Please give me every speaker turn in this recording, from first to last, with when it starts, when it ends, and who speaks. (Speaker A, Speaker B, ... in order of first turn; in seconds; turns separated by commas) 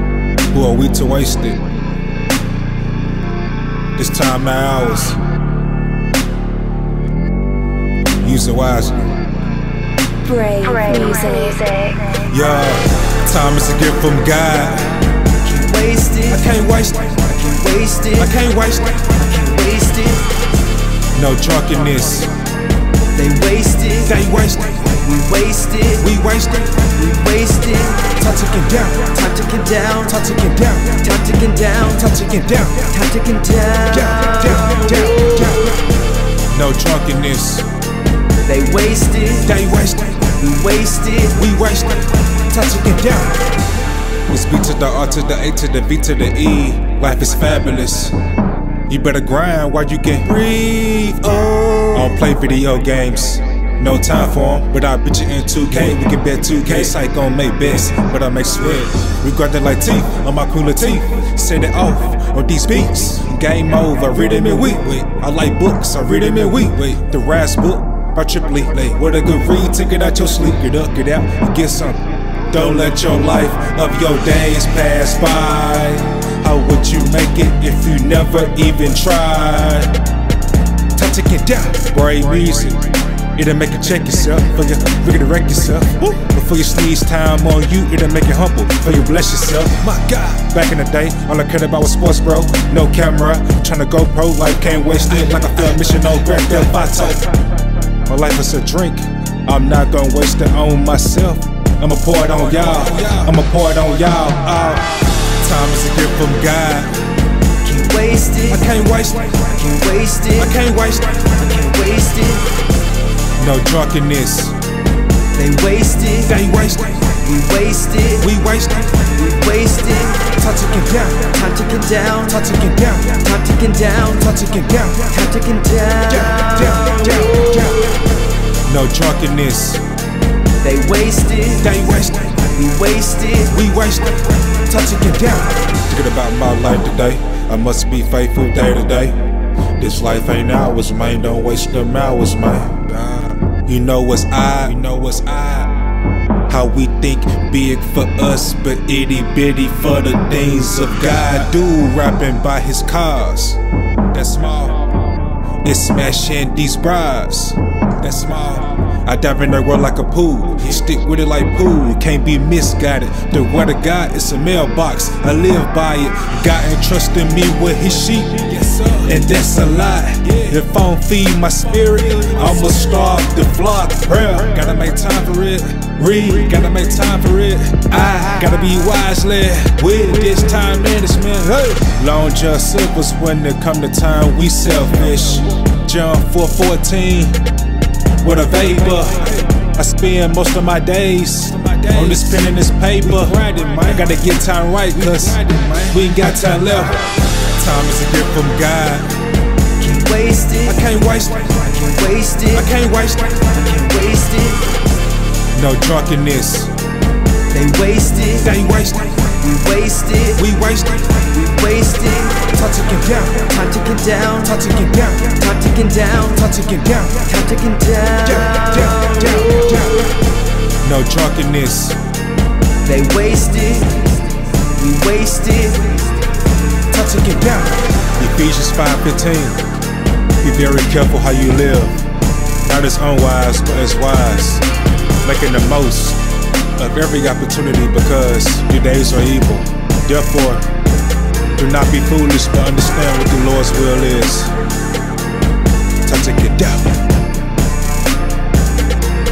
Speaker A: 0.5-1.6, Speaker A: 4.0-5.2, Speaker A: 8.2-9.2, Speaker B: 10.2-12.2, Speaker A: 12.2-14.9, Speaker C: 15.4-16.3, Speaker A: 16.3-17.3, Speaker C: 17.3-18.2, Speaker A: 18.2-19.2, Speaker C: 19.2-20.2, Speaker A: 21.1-22.4, Speaker C: 23.2-24.1, Speaker A: 24.0-25.0, Speaker C: 25.0-26.0, Speaker A: 26.0-26.9, Speaker C: 27.0-28.1, Speaker A: 28.1-29.2, Speaker C: 29.1-30.1, Speaker A: 30.1-31.1, Speaker C: 31.1-31.9, Speaker A: 31.9-33.0, Speaker C: 33.0-34.9, Speaker A: 33.9-35.7, Speaker A: 36.5-37.7, Speaker C: 38.5-39.5, Speaker A: 39.5-40.4, Speaker C: 40.4-41.3, Speaker A: 41.3-43.4, Speaker A: 44.3-48.2, Speaker A: 48.9-80.0, Speaker A: 81.0-97.3, Speaker A: 98.0-107.0, Speaker C: 107.7-108.5, Speaker A: 108.5-109.6, Speaker C: 109.6-110.4, Speaker A: 110.3-111.5, Speaker C: 111.4-112.5, Speaker A: 113.4-114.6, Speaker C: 115.4-116.2, Speaker A: 116.2-117.2, Speaker C: 117.2-118.2, Speaker A: 118.2-119.2, Speaker C: 119.2-120.3, Speaker A: 120.3-121.3, Speaker C: 121.3-122.3, Speaker A: 122.3-123.2, Speaker C: 123.1-124.2, Speaker A: 124.2-125.1, Speaker C: 125.1-127.5, Speaker A: 126.5-127.7, Speaker A: 128.7-129.9, Speaker C: 130.6-131.6, Speaker A: 131.6-132.5, Speaker C: 132.5-133.4, Speaker A: 133.4-145.8, Speaker A: 146.5-154.9, Speaker A: 155.6-187.4, Speaker A: 188.2-199.1, Speaker C: 199.8-200.7, Speaker A: 200.7-201.7, Speaker C: 201.7-202.6, Speaker A: 202.5-203.5, Speaker C: 203.5-204.7, Speaker A: 205.5-206.7, Speaker C: 207.5-208.4, Speaker A: 208.3-209.4, Speaker C: 209.4-210.3, Speaker A: 210.3-211.4, Speaker C: 211.4-212.5, Speaker A: 212.5-213.4, Speaker C: 213.4-214.5, Speaker A: 214.5-215.4, Speaker C: 215.3-216.3, Speaker A: 216.3-217.3, Speaker C: 217.3-219.2, Speaker A: 218.6-219.9, Speaker A: 220.8-222.0, Speaker C: 222.8-226.1, Speaker A: 226.9-229.6, Speaker A: 230.4-232.1, Speaker A: 232.6-234.7, Speaker A: 235.2-240.7, Speaker A: 241.5-244.6, Speaker A: 246.0-246.9